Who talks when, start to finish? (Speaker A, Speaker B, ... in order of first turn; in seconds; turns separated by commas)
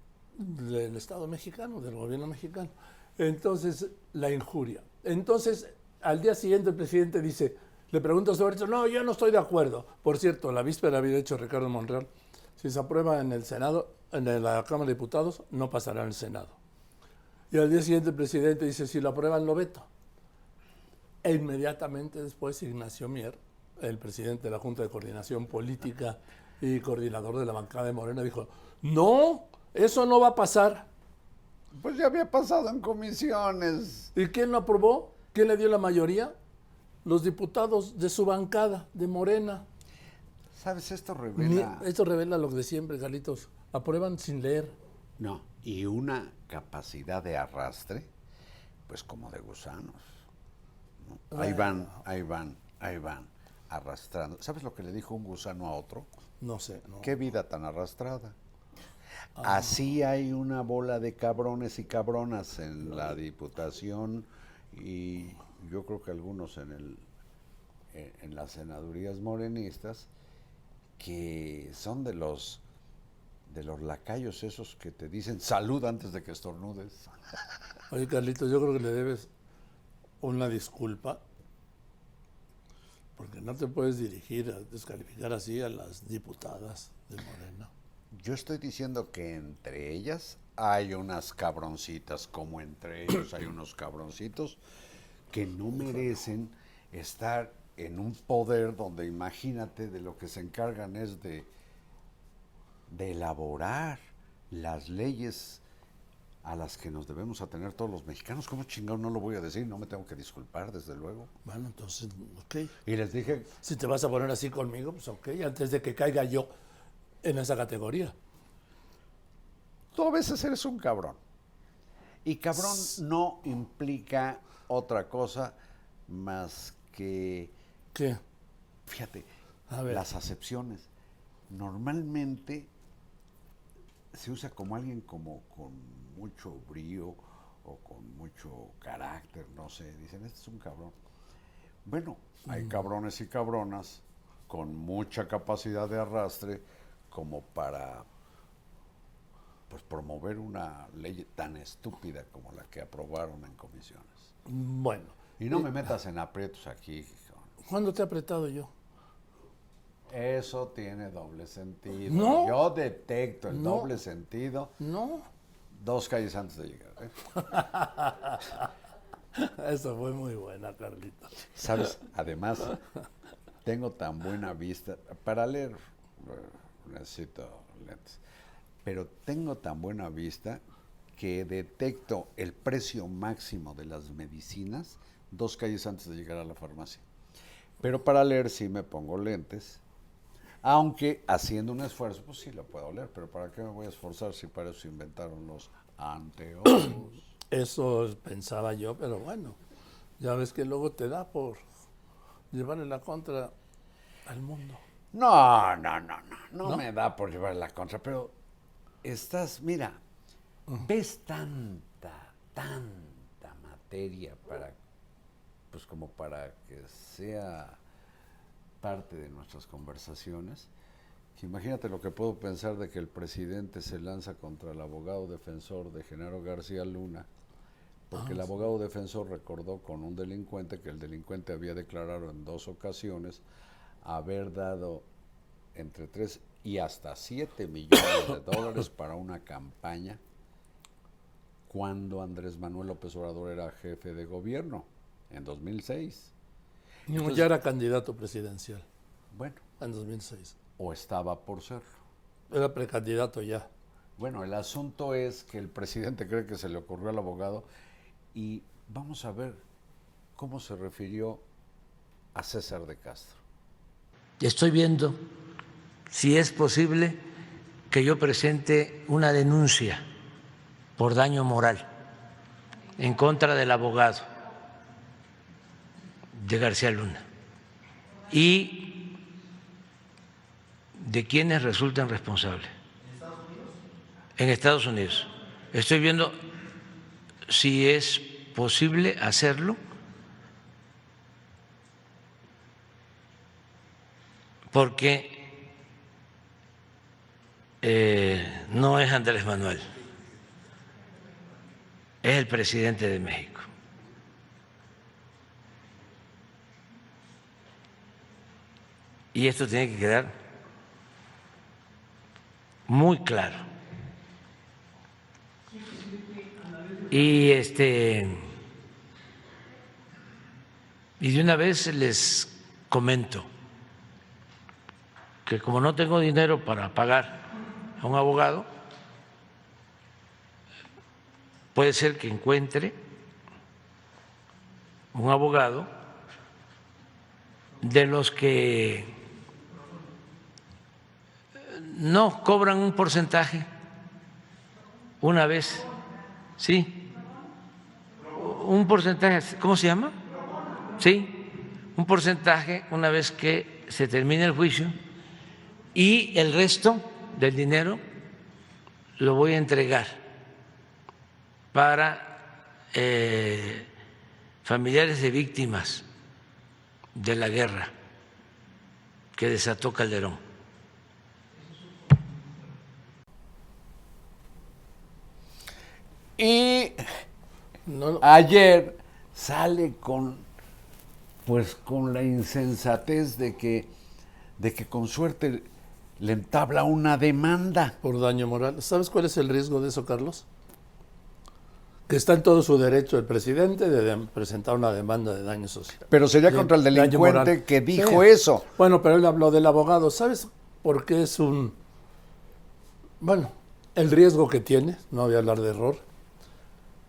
Speaker A: 0.3-16.6, Speaker A: 17.5-19.9, Speaker A: 21.2-30.9, Speaker B: 31.7-34.1, Speaker A: 34.1-36.3, Speaker A: 37.0-39.6, Speaker B: 40.5-41.9, Speaker A: 41.4-44.7, Speaker B: 45.2-48.1, Speaker B: 48.9-50.1, Speaker B: 51.0-56.1, Speaker A: 51.3-52.0, Speaker A: 56.4-57.1, Speaker B: 57.0-58.4, Speaker A: 59.4-59.7, Speaker B: 59.4-67.0, Speaker B: 67.9-70.1, Speaker B: 71.0-72.6, Speaker B: 73.5-77.2, Speaker A: 77.9-79.3, Speaker A: 80.2-81.2, Speaker A: 83.2-87.7, Speaker B: 88.1-94.6, Speaker B: 95.3-101.5, Speaker B: 102.9-105.6, Speaker B: 106.4-111.3, Speaker A: 111.5-112.7, Speaker B: 112.8-113.5, Speaker A: 113.6-116.5, Speaker A: 117.2-118.1, Speaker B: 119.9-121.2, Speaker B: 122.2-125.5, Speaker B: 126.1-127.5, Speaker A: 127.9-128.2, Speaker B: 128.8-129.3, Speaker A: 129.7-130.0, Speaker B: 129.9-130.9, Speaker B: 131.5-132.7, Speaker B: 134.1-140.9, Speaker B: 141.8-148.1, Speaker B: 149.7-154.3, Speaker A: 154.4-155.7, Speaker B: 155.4-157.5, Speaker A: 157.7-158.7, Speaker B: 160.1-164.7, Speaker A: 162.1-162.6, Speaker A: 163.5-163.9, Speaker A: 164.8-165.2, Speaker B: 165.7-167.1, Speaker A: 167.5-168.6, Speaker A: 169.3-171.9, Speaker B: 171.5-172.8, Speaker B: 173.6-178.2, Speaker B: 178.8-180.6, Speaker B: 181.2-187.0, Speaker B: 187.8-189.8, Speaker B: 190.6-197.2, Speaker A: 197.5-199.6, Speaker A: 200.2-201.6, Speaker A: 202.5-203.5, Speaker A: 204.2-204.8, Speaker B: 205.1-208.3, Speaker B: 209.0-210.0, Speaker B: 210.8-214.8, Speaker B: 215.7-217.8, Speaker B: 218.8-220.7, Speaker B: 221.3-227.3, Speaker B: 228.1-233.4, Speaker A: 228.2-228.4, Speaker B: 234.0-235.1, Speaker B: 235.7-240.2, Speaker B: 241.7-246.3, Speaker A: 247.1-248.8, Speaker B: 247.1-247.5, Speaker B: 249.3-249.6, Speaker A: 249.8-250.5, Speaker B: 250.8-251.9, Speaker A: 252.5-253.7, Speaker B: 254.2-257.6, Speaker B: 258.3-259.6, Speaker B: 260.4-261.4, Speaker B: 262.3-263.4, Speaker C: 264.4-265.2, Speaker C: 266.1-267.2, Speaker C: 267.9-270.0, Speaker C: 271.0-271.9, Speaker C: 273.0-274.3, Speaker C: 276.3-277.2, Speaker C: 278.3-278.9, Speaker C: 280.9-282.7, Speaker C: 284.4-286.4, Speaker C: 287.5-289.8, Speaker C: 294.7-295.4, Speaker C: 297.8-299.9, Speaker C: 302.2-303.7, Speaker C: 309.3-310.3, Speaker C: 312.9-313.6, Speaker C: 317.1-318.4, Speaker C: 321.2-323.5, Speaker C: 325.4-327.4, Speaker C: 328.0-328.7, Speaker C: 331.7-332.9, Speaker C: 335.1-335.9, Speaker C: 337.8-339.1, Speaker C: 341.6-343.7, Speaker C: 345.2-345.9, Speaker C: 346.6-347.1, Speaker C: 348.3-350.1, Speaker C: 351.0-351.4, Speaker C: 351.9-354.9, Speaker C: 355.9-358.0, Speaker C: 359.2-360.2, Speaker C: 361.7-362.4, Speaker C: 362.9-363.9, Speaker C: 364.6-366.0, Speaker C: 367.1-367.9, Speaker C: 369.4-370.4, Speaker B: 376.4-377.0, Speaker A: 377.9-378.2, Speaker B: 378.2-380.4, Speaker B: 381.4-383.9, Speaker B: 384.6-385.7, Speaker B: 386.2-388.0, Speaker A: 388.0-390.4, Speaker A: 392.1-401.8, Speaker B: 396.1-398.6, Speaker A: 403.2-406.0